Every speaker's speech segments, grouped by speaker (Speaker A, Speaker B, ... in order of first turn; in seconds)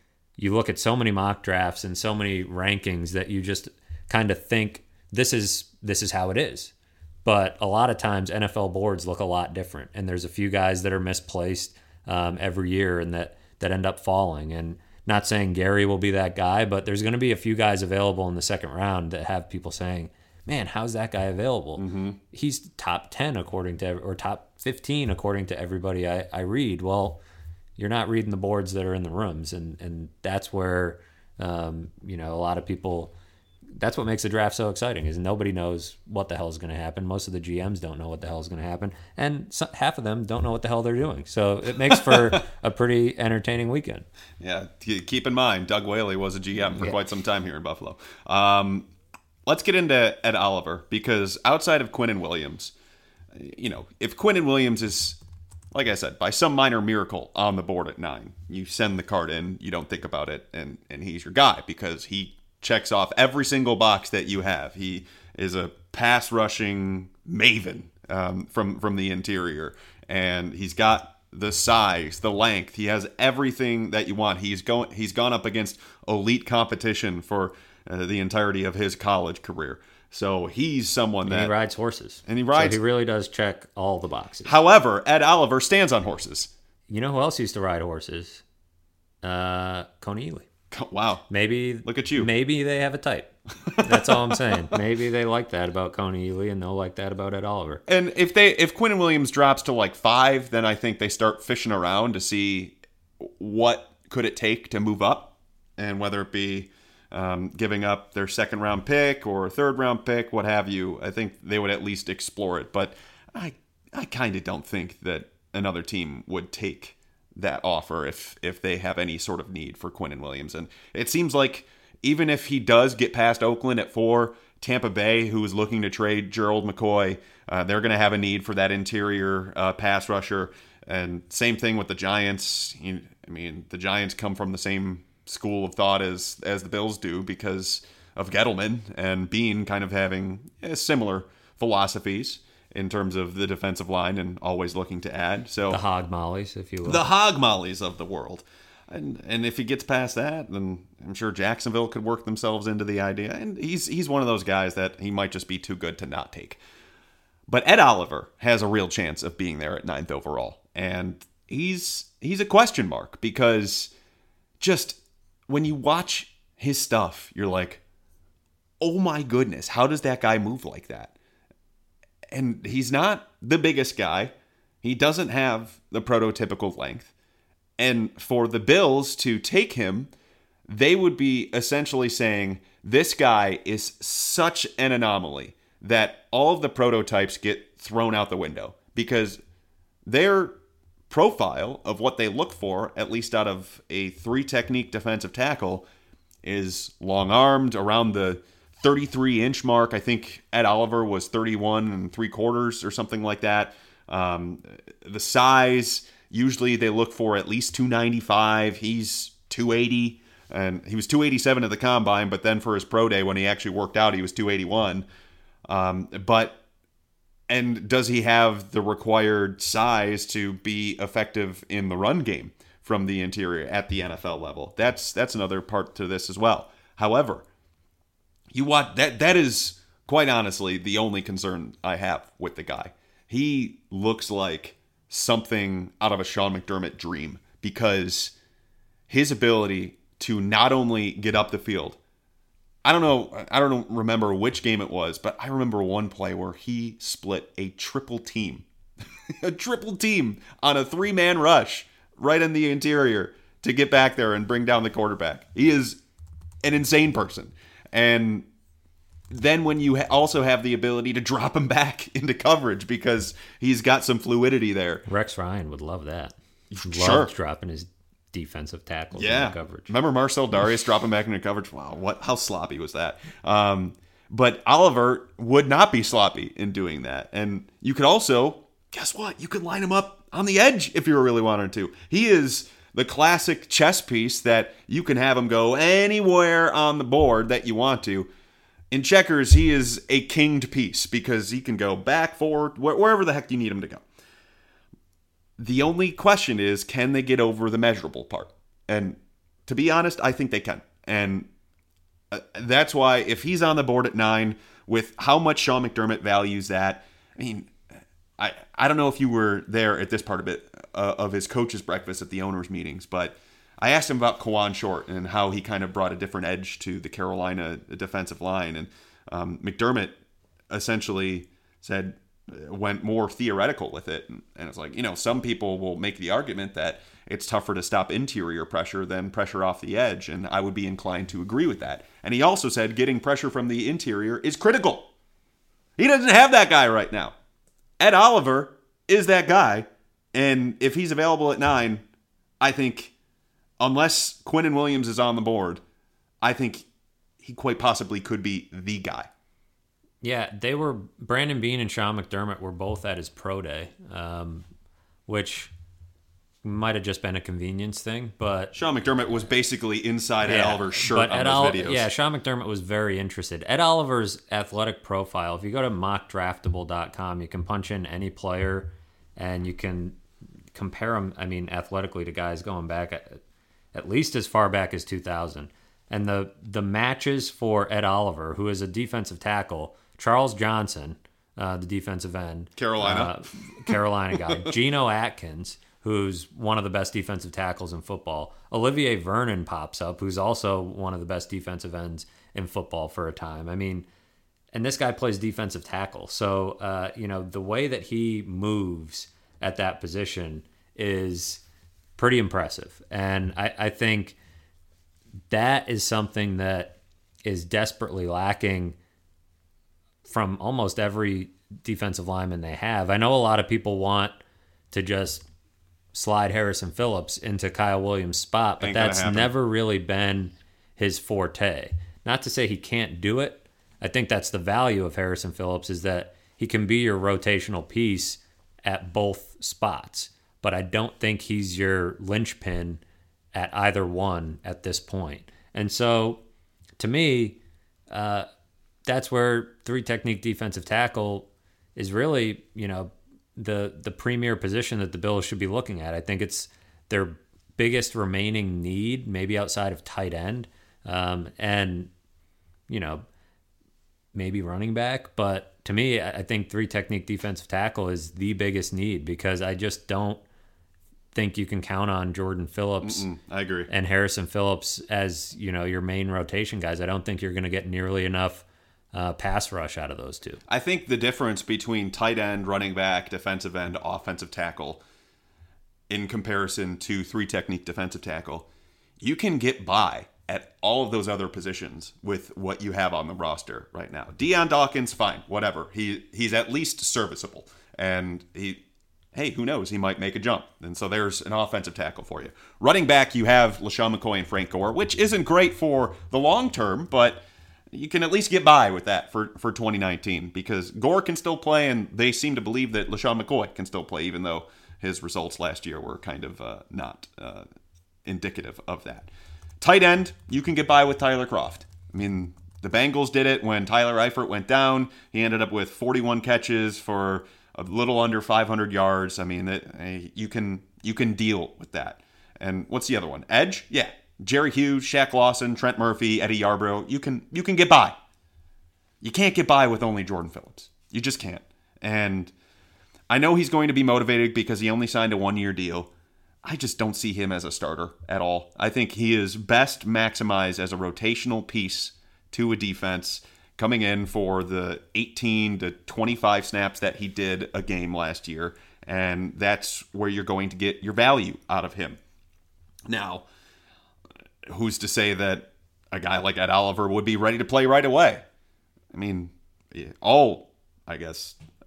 Speaker A: 0.4-6.7, 7.2-27.2, 27.8-33.1, 33.8-44.1, 81.2-84.6, 86.9-88.4, 89.2-90.5, 91.3-97.8, 145.7-147.0, 265.1-269.9, 350.2-354.6, 355.3-355.7, 356.6-358.7, 360.4-370.2, 370.7-373.4, 373.9-394.1, 394.7-401.6, 402.2-404.4, 405.5-409.0, 410.2-414.4, 414.9-415.5, 416.1-433.0, 433.5-436.4, 437.0-437.6, 438.1-438.5, 439.1-452.1, 452.9-453.2, 454.3-460.4, 461.3-463.2, 463.9-470.6
Speaker B: 21.8-22.2, 41.9-42.4, 44.4-48.9, 49.5-52.7, 53.3-55.2, 55.7-81.5, 82.3-82.8, 84.5-86.5, 90.7-91.3, 91.8-92.3, 93.7-94.3, 97.9-145.8, 146.8-156.6, 157.5-163.9, 164.6-167.8, 168.8-171.2, 172.3-177.1, 177.8-180.1, 180.7-189.4, 190.1-190.6, 191.1-195.9, 196.4-215.1, 215.7-216.6, 217.5-227.5, 228.5-238.3, 239.1-242.0, 242.8-248.7, 249.3-256.0, 256.6-258.5, 259.3-265.1, 266.7-267.3, 269.1-288.3, 288.9-294.1, 295.6-301.5, 302.3-307.8, 308.4-320.2, 320.7-335.1, 336.0-337.4, 338.0-342.1, 342.6-343.1, 343.8-345.8, 346.4-346.9, 347.4-349.3, 358.7-362.1, 382.8-383.4, 383.9-384.7, 418.8-419.5, 463.0-463.9, 470.7-475.0, 476.1-478.7, 479.2-488.8, 489.3-507.7, 508.2-509.3, 509.8-528.2, 529.2-532.5, 533.3-536.1, 536.6-552.2, 553.1-553.5, 554.7-558.5, 559.1-561.6